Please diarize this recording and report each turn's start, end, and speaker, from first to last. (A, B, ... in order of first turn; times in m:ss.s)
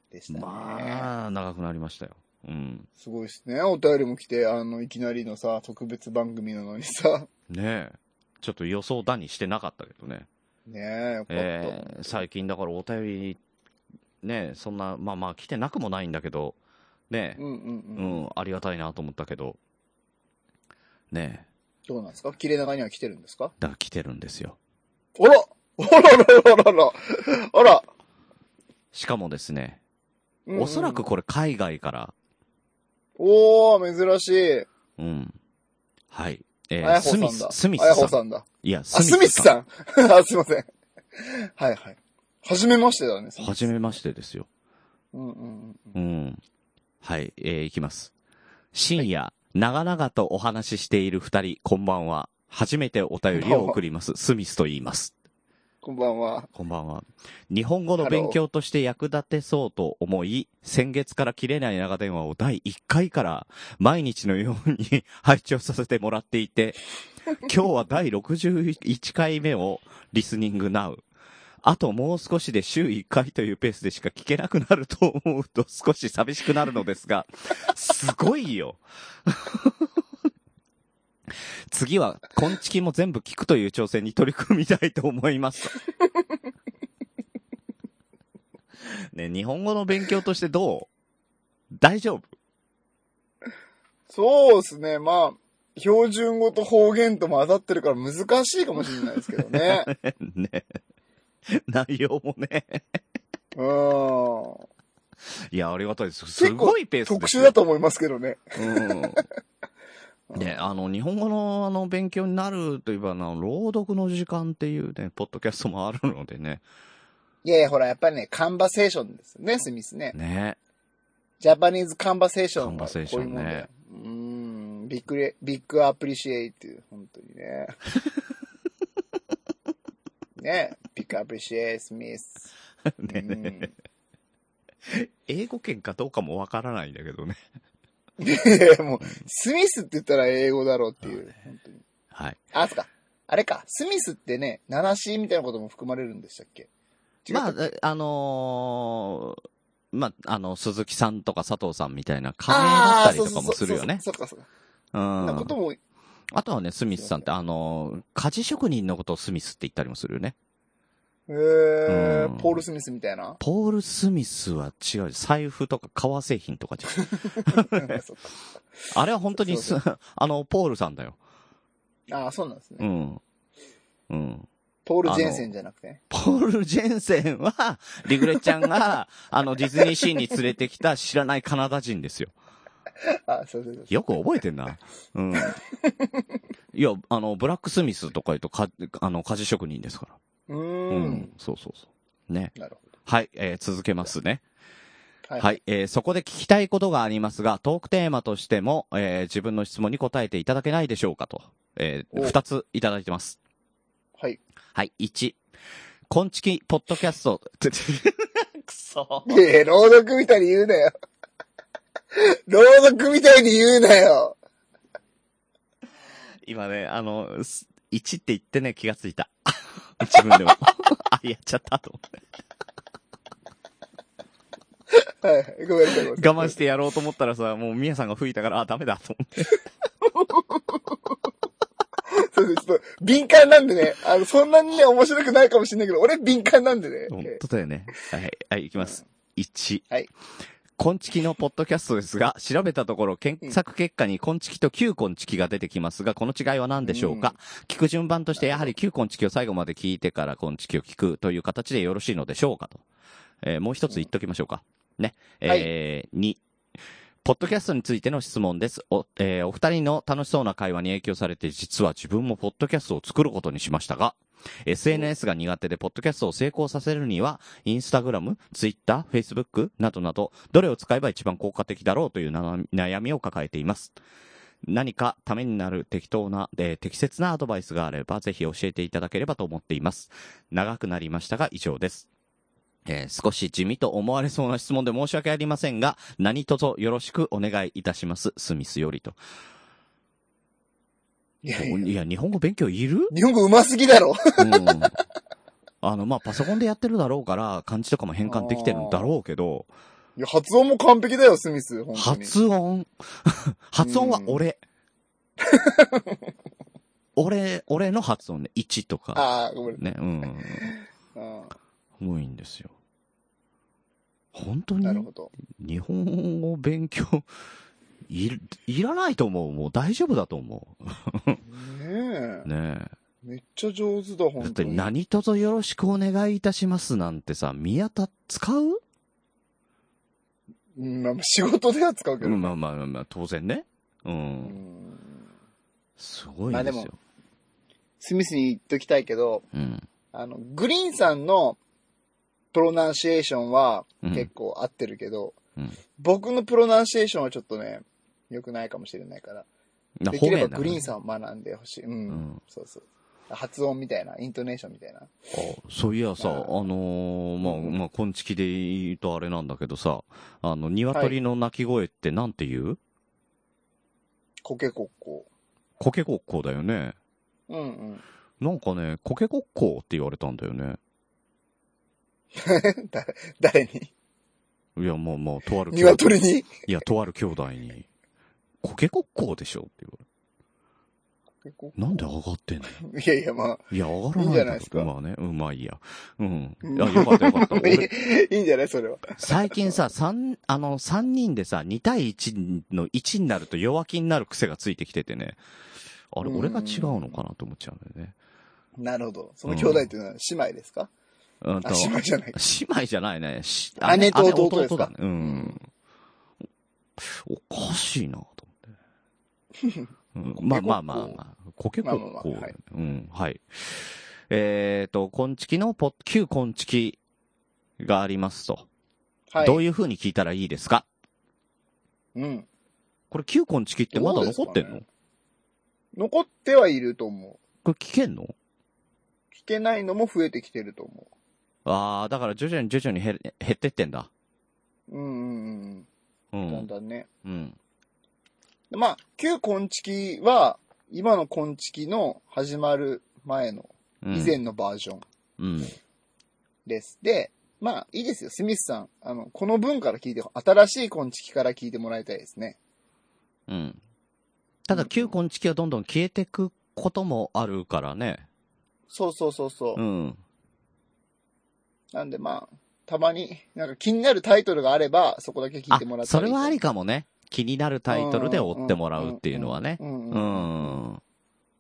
0:00.1-0:01.1 A
0:00.3-0:02.9 B
0:03.0-0:07.3 A
0:07.5-0:10.3 B
0:10.7-0:12.2 A
0:11.3-0:13.4 B
0:14.2-0:16.6 B
0:17.1-0:17.4 B
0:17.4-0:18.2 A
0:18.0-0:19.6 B
0:21.1-0:21.5 B
0:21.9-0:23.5 A
0:23.6-0:24.6 B
0:25.2-0:27.9 A
0:28.9-0:29.8 B
0:30.5-0:31.0 A
0:30.6-0:32.1 B
0:33.2-0:34.7 A
0:35.0-0:35.4 B
0:36.1-0:39.5 B
0:36.8-0:43.8 A
0:43.4-0:44.5 B
0:45.1-0:46.0 A
0:46.0-0:46.4 B
0:47.0-0:48.1 B
0:48.7-0:55.1 B
0:53.4-0:53.8 A
0:55.8-0:56.5 A
0:56.6-1:06.8 B
0:58.0-0:58.4 A
1:07.4-1:11.0 B
1:11.6-1:19.9 B
1:21.7-1:25.8 B
1:29.1-1:30.9 B
1:31.8-1:32.3 B
1:34.1-1:39.9 A
1:39.5-1:40.8 B
1:41.5-1:43.0 B
1:43.6-1:44.7 A
1:45.5-1:47.6 B
1:46.4-1:49.2 A
1:48.6-1:49.2 B
1:50.3-1:50.6 A
1:50.4-1:56.6 B
1:57.4-2:00.2 A
2:00.1-2:00.6 B
2:01.4-2:07.8 A
2:02.6-2:03.7 B
2:10.4-2:12.5 A
2:12.9-2:13.7 B
2:13.1-2:13.7 A
2:14.9-2:17.4 B
2:18.2-2:21.8 A
2:22.1-2:22.4 B
2:22.5-2:26.7 A
2:27.2-2:27.7 A
2:27.3-2:34.0 B
2:32.5-2:34.5 A
2:34.9-2:35.5 B
2:35.2-2:35.8 A
2:36.3-2:40.4 B
2:37.0-2:37.2 A
2:41.3-2:43.4 A
2:41.9-2:42.6 B
2:43.4-2:48.0 B
2:47.1-2:48.3 A
2:48.9-2:51.2 B
2:49.3-2:49.8 A
2:52.1-2:52.9 A
2:52.8-2:53.2 B
2:54.1-2:54.5 B
2:54.9-2:56.0 A
2:55.0-2:55.5 B
2:56.1-3:02.3 B
3:03.3-3:04.0 A
3:03.9-3:05.6 B
3:05.4-3:06.2 A
3:06.7-3:10.2 B
3:10.5-3:11.3 A
3:10.9-3:12.5 B
3:12.6-3:12.8 A
3:13.1-3:14.4 B
3:15.3-3:15.6 A
3:15.4-3:23.4 B
3:24.8-3:25.4 B
3:26.1-3:29.4 B
3:29.2-3:30.9 A
3:32.2-3:34.4 A
3:36.4-3:42.1 B
3:45.2-3:46.6 A
3:46.0-3:49.5 B
3:50.2-3:50.8 A
3:52.1-3:57.4 A
3:57.1-3:59.9 B
4:00.8-4:12.8 B
4:06.8-4:07.4 A
4:08.4-4:08.7 A
4:13.4-4:16.4 B
4:17.2-4:34.0 B
4:34.7-4:42.1 B
4:42.9-4:49.2 B
4:51.4-4:51.9 A
4:51.6-4:53.1 B
4:53.1-4:54.8 A
4:54.4-4:55.0 B
4:55.8-4:59.7 B
4:58.3-4:59.1 A
5:00.2-5:02.3 A
5:02.0-5:04.6 B
5:03.8-5:04.4 A
5:05.4-5:06.2 A
5:07.2-5:10.7 B
5:09.2-5:09.8 A
5:10.6-5:11.5 A
5:12.0-5:12.7 B
5:14.3-5:17.3 B
5:14.8-5:15.3 A
5:18.1-5:21.4 B
5:21.4-5:22.5 A
5:22.4-5:22.9 B
5:23.2-5:24.9 A
5:24.4-5:28.8 B
5:30.8-5:32.5 A
5:32.2-5:34.6 B
5:34.4-5:35.2 A
5:36.0-5:37.0 B
5:36.5-5:36.9 A
5:38.0-5:39.4 A
5:39.5-5:39.9 B
5:40.1-5:41.6 A
5:42.5-5:45.4 A
5:44.0-5:44.3 B
5:46.0-5:49.5 A
5:50.0-5:50.8 B
5:50.1-5:55.1 A
5:52.1-5:52.4 B
5:55.3-6:02.8 B
5:56.2-5:56.6 A
5:57.4-5:57.8 A
6:00.9-6:01.2 A
6:04.4-6:05.3 A
6:05.8-6:07.0 B
6:07.5-6:08.0 A
6:08.4-6:10.8 B
6:12.4-6:13.9 A
6:14.8-6:17.9 B
6:15.7-6:16.6 A
6:18.6-6:20.0 B
6:21.4-6:22.0 A
6:21.8-6:22.8 B
6:22.8-6:24.9 A
6:23.7-6:27.9 B
6:26.6-6:29.8 A
6:29.2-6:35.4 B
6:36.1-6:38.2 B
6:36.2-6:37.2 A
6:38.8-6:40.9 A
6:39.5-6:39.9 B
6:41.4-6:45.6 B
6:41.6-6:42.4 A
6:43.8-6:45.6 A
6:47.0-6:48.7 B
6:49.6-6:51.2 A
6:50.2-6:57.0 B
6:51.8-6:52.6 A
6:57.8-6:58.7 B
6:59.3-6:59.6 A
6:59.4-7:00.9 B
7:02.2-7:02.5 A
7:03.1-7:04.8 B
7:03.9-7:04.8 A
7:06.0-7:07.4 A
7:07.6-7:08.3 B
7:09.3-7:11.1 A
7:11.7-7:14.1 B
7:14.9-7:15.9 A
7:16.3-7:16.7 B
7:16.5-7:17.1 A
7:17.2-7:17.6 B
7:18.7-7:25.0 A
7:24.0-7:24.4 B
7:25.4-7:25.8 B
7:26.7-7:32.6 A
7:33.5-7:33.8 B
7:34.7-7:38.3 B
7:34.7-7:35.1 A
7:38.9-7:39.8 A
7:39.8-7:40.2 B
7:41.9-7:46.6 A
7:45.7-7:51.0 B
7:47.9-7:50.8 A